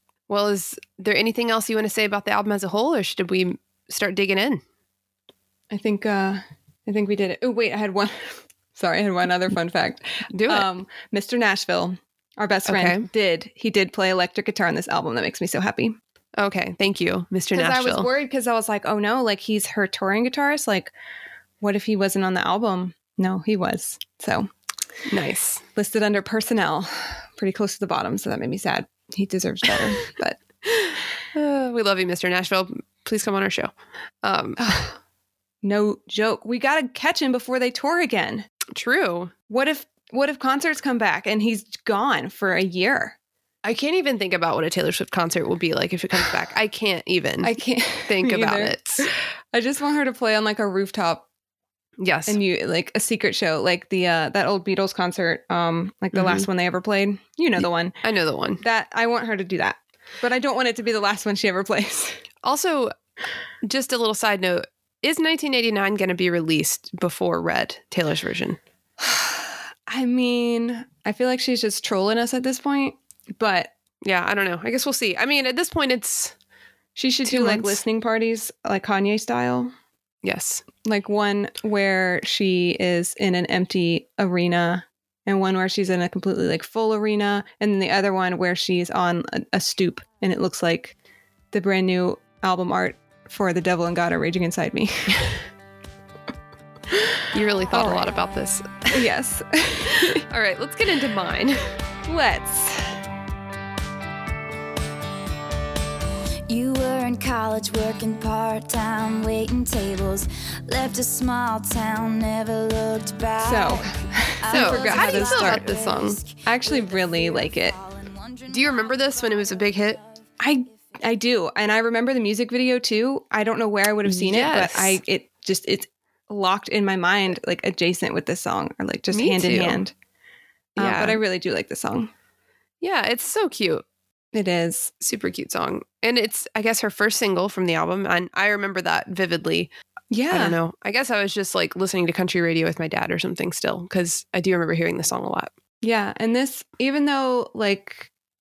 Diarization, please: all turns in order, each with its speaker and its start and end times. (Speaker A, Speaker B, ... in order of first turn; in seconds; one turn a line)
Speaker A: 0.3-4.6
Speaker B: 5.7-16.0
Speaker A: 10.3-10.7
Speaker A: 12.7-13.1
Speaker A: 16.4-18.1
Speaker B: 17.5-20.9
Speaker B: 21.6-24.5
Speaker A: 25.1-25.6
Speaker B: 25.8-30.4
Speaker A: 30.7-33.7
Speaker A: 34.2-34.8
Speaker B: 34.6-35.0
Speaker B: 35.6-38.5
Speaker A: 38.7-39.3
Speaker B: 39.5-43.2
Speaker A: 43.6-47.6
Speaker B: 47.4-51.2
Speaker A: 48.1-49.1
Speaker A: 52.0-52.4
Speaker B: 52.3-58.0
Speaker A: 56.1-56.5
Speaker A: 58.0-58.6
Speaker B: 58.6-62.2
Speaker A: 62.4-62.9
Speaker A: 63.6-68.6
Speaker B: 69.0-73.7
Speaker A: 74.0-76.3
Speaker B: 77.0-79.7
Speaker A: 77.2-77.8
Speaker A: 80.2-80.6
Speaker B: 80.8-91.0
Speaker B: 91.5-95.3
Speaker A: 97.3-99.0
Speaker B: 97.7-98.1
Speaker B: 98.9-100.2
Speaker A: 100.0-101.8
Speaker B: 102.0-103.0
Speaker C: 106.5-121.0
Speaker B: 113.4-115.7
Speaker A: 114.5-116.2
Speaker B: 116.4-117.8
Speaker A: 118.5-120.0
Speaker B: 120.4-129.9
Speaker A: 124.0-125.0
Speaker A: 129.1-129.8
Speaker A: 130.8-131.2
Speaker B: 130.8-132.1
Speaker A: 132.8-133.8
Speaker B: 134.3-134.9
Speaker A: 135.0-139.7
Speaker B: 140.1-140.6
Speaker A: 140.3-145.5
Speaker B: 145.8-148.1